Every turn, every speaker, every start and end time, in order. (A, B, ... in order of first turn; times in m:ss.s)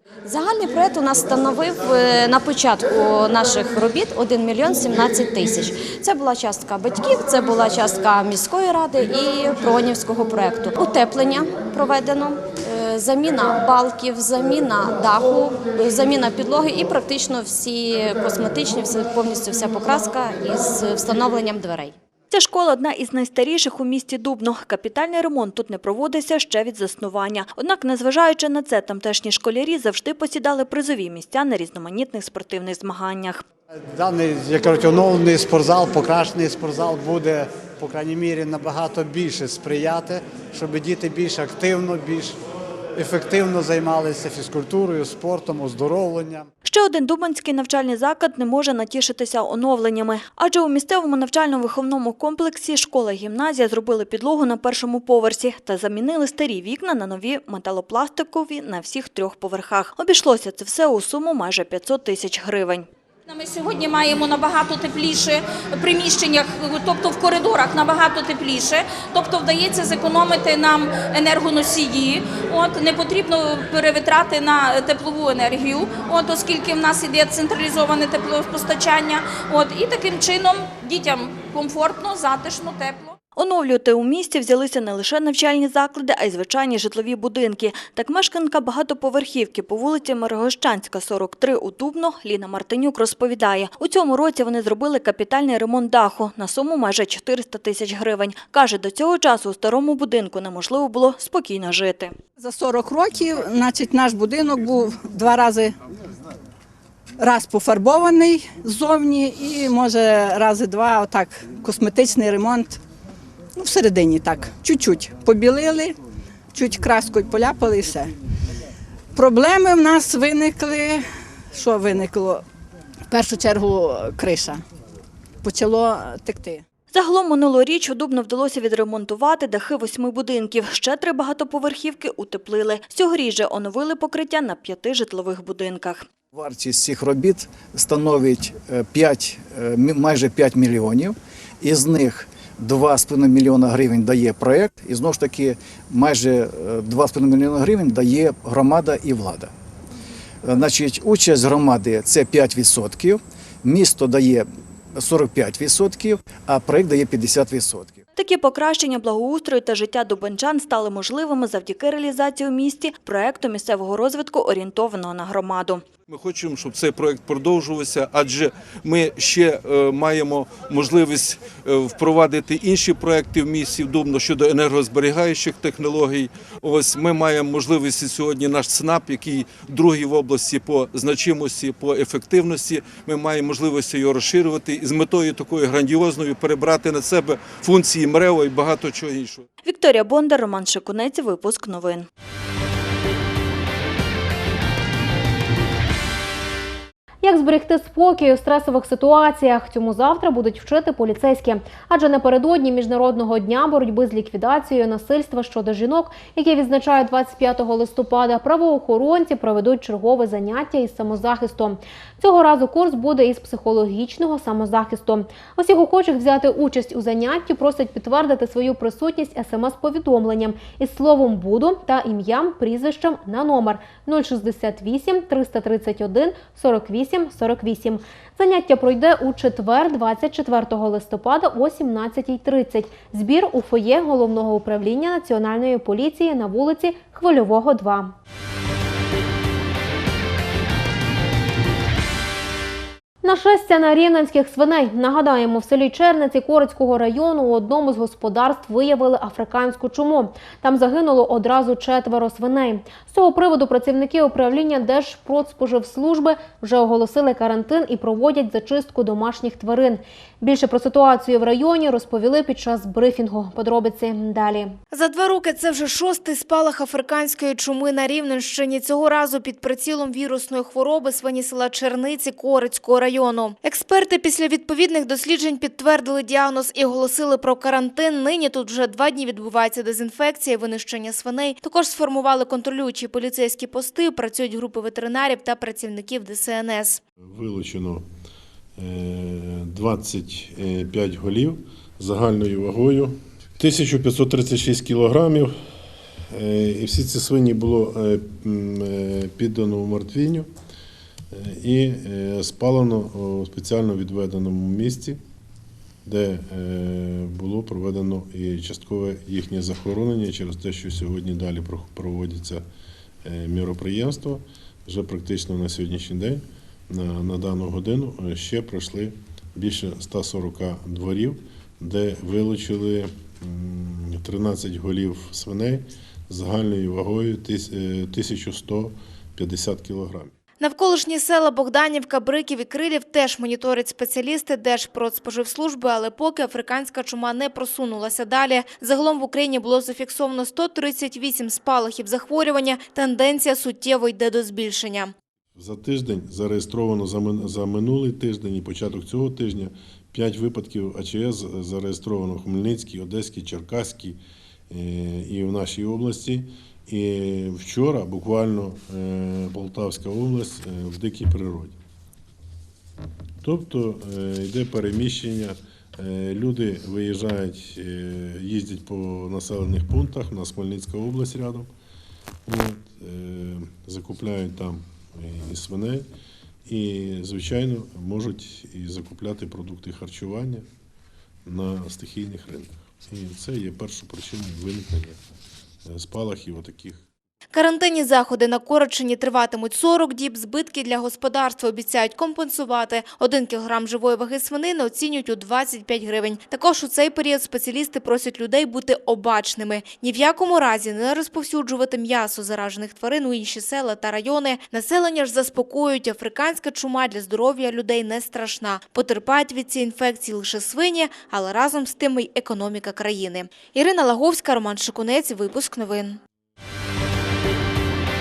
0:00.2-0:22.0 A
0:22.3-0:33.4 B
0:33.9-0:42.4 C
0:43.0-0:46.5 C
0:46.6-1:02.9 B
1:03.3-1:23.2 D
1:23.4-1:42.2 B
1:42.4-1:45.8 E
1:47.2-1:52.8 E
1:53.6-1:56.0 E
1:56.5-1:58.1 E
1:59.1-2:02.4 E
2:03.1-2:04.6 E
2:05.4-2:06.6 E
2:06.9-2:16.1 B
2:16.3-2:29.5 F
2:30.4-2:38.0 F
2:38.2-2:45.8 B
2:46.1-3:09.4 G
3:09.6-3:12.1 B
3:17.2-3:58.1 H
4:03.2-4:24.8 H
4:24.9-4:47.0 I
4:47.3-4:48.1 J
4:48.8-4:55.6 J
4:56.3-5:00.5 J
5:01.3-5:05.2 J
5:06.0-5:12.6 J
5:13.2-5:30.3 J
5:30.6-5:45.1 I
5:45.6-6:01.8 J
6:03.4-6:11.7 J
6:12.5-6:16.1 J
6:16.7-6:20.7 J
6:21.5-6:25.2 J
6:25.9-6:27.0 J
6:27.5-6:56.2 I